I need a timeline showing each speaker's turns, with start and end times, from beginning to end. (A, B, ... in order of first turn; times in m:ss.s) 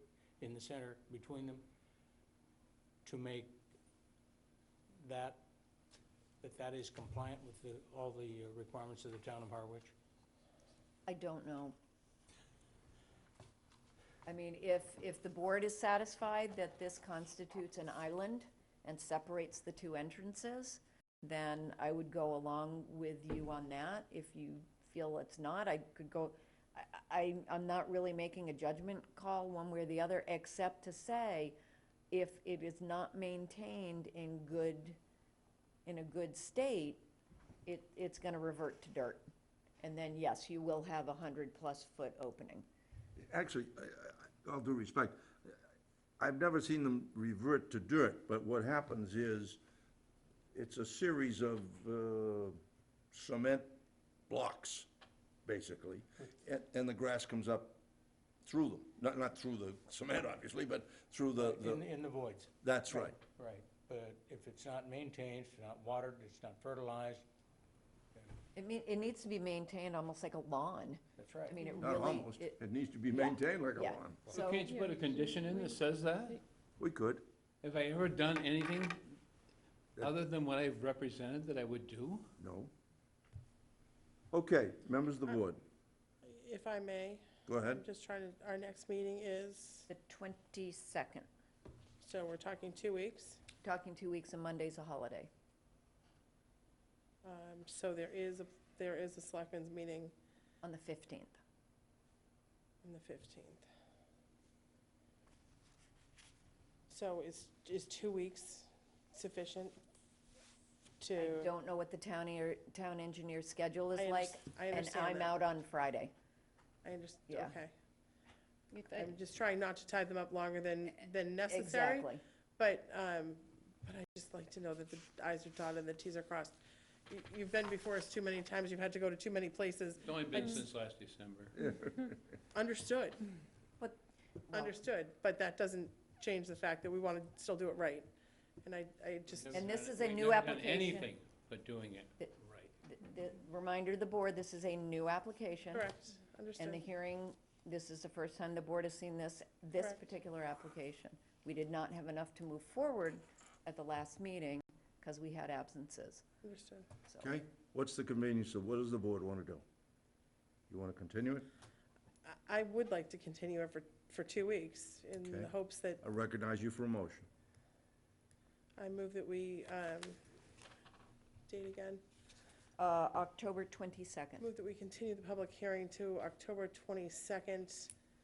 0:00.4-0:01.6 A
0:03.0-0:03.6 A
0:05.0-0:05.4 A
0:06.4-0:09.9 A
0:11.1-0:11.8 B
0:14.2-0:31.5 B
0:32.1-0:35.0 B
0:35.8-0:37.0 B
0:37.6-0:39.2 B
0:39.8-0:42.6 B
0:43.2-0:45.5 C
0:46.2-0:49.6 C
0:50.5-0:52.6 C
0:53.1-0:53.8 C
0:54.3-0:54.9 C
0:55.4-0:57.8 C
0:58.4-1:01.9 C
1:01.4-1:07.2 A
1:02.6-1:03.2 C
1:08.5-1:12.6 B
1:11.2-1:11.6 A
1:11.8-1:14.3 C
1:13.1-1:14.7 B
1:14.3-1:16.4 D
1:16.8-1:17.2 C
1:17.6-1:19.2 D
1:20.0-1:22.3 D
1:22.4-1:22.7 C
1:24.3-1:25.6 C
1:26.2-1:29.9 E
1:27.5-1:27.8 C
1:29.9-1:31.2 B
1:32.0-1:33.4 E
1:33.6-1:35.3 B
1:37.2-1:40.1 E
1:40.6-1:41.4 B
1:42.8-1:43.6 E
1:46.9-1:49.8 E
1:51.0-1:51.5 E
1:51.2-1:56.1 B
1:54.0-1:55.3 E
1:56.8-1:57.7 E
1:57.3-1:57.5 B
1:58.7-1:59.1 B
1:58.9-2:06.6 E
2:01.5-2:02.2 B
2:07.1-2:10.6 E
2:10.0-2:11.5 D
2:11.6-2:12.2 C
2:12.5-2:13.2 E
2:14.5-2:14.8 B
2:14.5-2:18.1 E
2:18.6-2:19.4 E
2:19.3-2:22.7 D
2:19.5-2:21.1 B
2:22.2-2:25.9 B
2:25.7-2:26.8 E
2:26.6-2:36.2 B
2:36.4-2:36.9 E
2:37.0-2:37.3 B
2:37.2-2:39.6 C
2:40.7-2:41.5 C
2:42.2-2:46.0 E
2:45.2-2:47.3 C
2:48.8-2:50.2 E
2:51.5-2:52.0 E
2:52.8-2:54.5 B
2:54.4-2:57.9 E